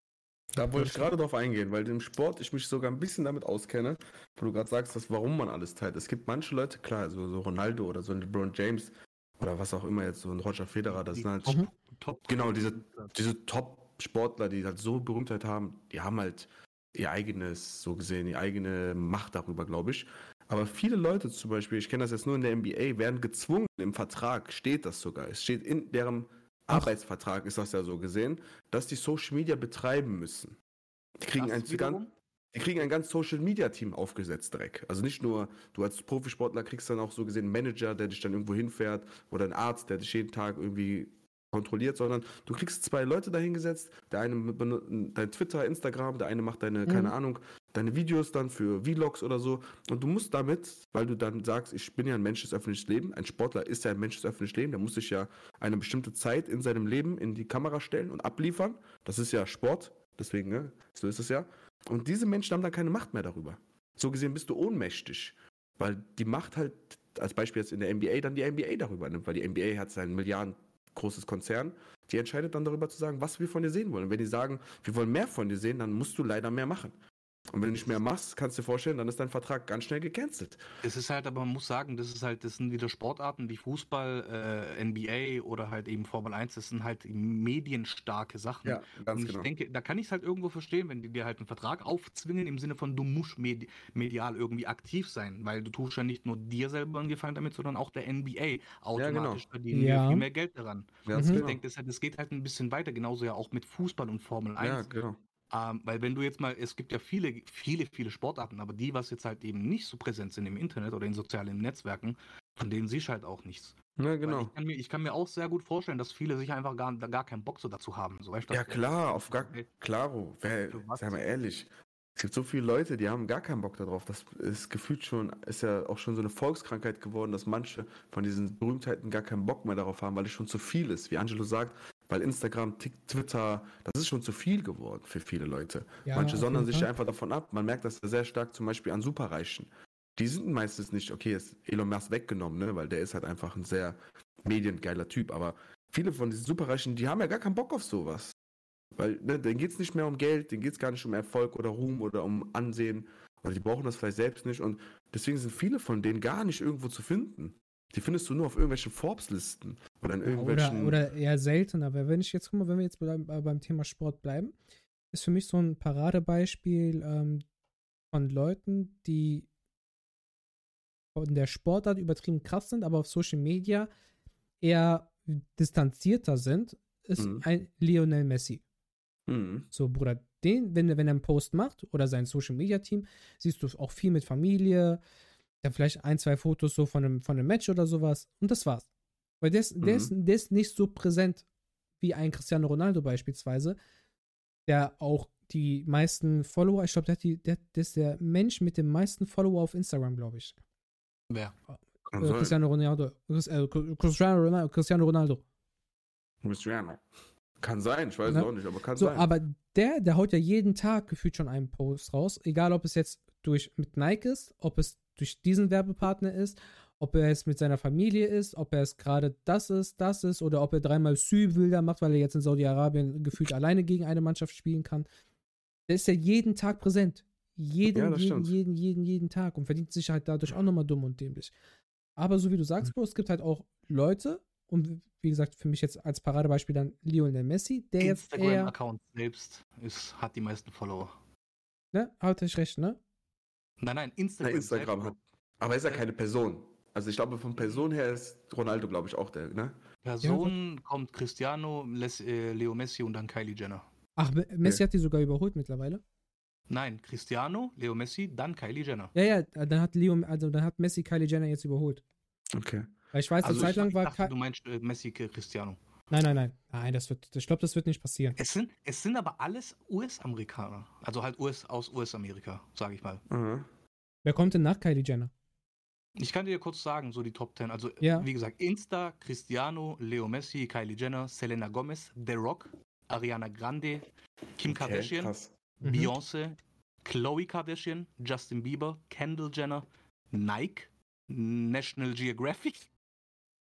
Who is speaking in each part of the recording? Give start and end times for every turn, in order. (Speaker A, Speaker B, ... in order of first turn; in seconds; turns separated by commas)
Speaker A: 0.5-11.6, Speaker B: 10.9-13.1, Speaker A: 12.3-30.6, Speaker A: 31.2-32.0, Speaker B: 31.3-32.1, Speaker A: 32.5-76.9, Speaker C: 46.9-47.1, Speaker A: 77.5-80.6, Speaker B: 80.8-104.8, Speaker A: 88.7-89.5, Speaker A: 99.0-99.4, Speaker C: 99.7-100.2, Speaker A: 101.0-101.6, Speaker C: 101.1-101.4, Speaker A: 104.6-105.2, Speaker B: 105.5-119.7, Speaker A: 114.0-114.5, Speaker A: 118.5-148.3, Speaker B: 120.7-121.2, Speaker C: 136.1-136.9, Speaker A: 149.0-161.0, Speaker C: 160.2-164.6, Speaker C: 165.1-167.4, Speaker C: 168.1-169.5, Speaker C: 171.1-173.9, Speaker C: 174.6-178.6, Speaker A: 177.2-177.4, Speaker A: 179.3-179.7, Speaker C: 179.7-185.0, Speaker C: 185.6-188.9, Speaker C: 189.4-191.4, Speaker A: 189.8-190.1, Speaker C: 192.0-193.8, Speaker C: 194.7-200.6, Speaker B: 201.3-201.5, Speaker A: 202.1-202.6, Speaker C: 202.2-205.4, Speaker A: 206.4-207.0, Speaker A: 207.6-209.3, Speaker C: 208.3-225.1, Speaker C: 225.9-231.5, Speaker A: 227.9-228.6, Speaker C: 232.2-238.7, Speaker B: 238.0-241.1, Speaker C: 241.9-243.0, Speaker B: 243.8-245.2, Speaker A: 244.4-249.8, Speaker B: 250.0-253.8, Speaker C: 250.2-250.5, Speaker C: 254.2-256.0, Speaker B: 256.7-259.1, Speaker C: 259.1-262.0, Speaker A: 262.5-262.9, Speaker C: 263.1-264.3, Speaker B: 263.4-265.8, Speaker A: 263.4-263.8, Speaker C: 266.1-268.4, Speaker B: 268.4-273.2, Speaker A: 273.3-273.7, Speaker C: 274.2-275.3, Speaker B: 276.2-292.9, Speaker C: 278.0-278.3, Speaker A: 284.6-285.5, Speaker C: 285.8-286.1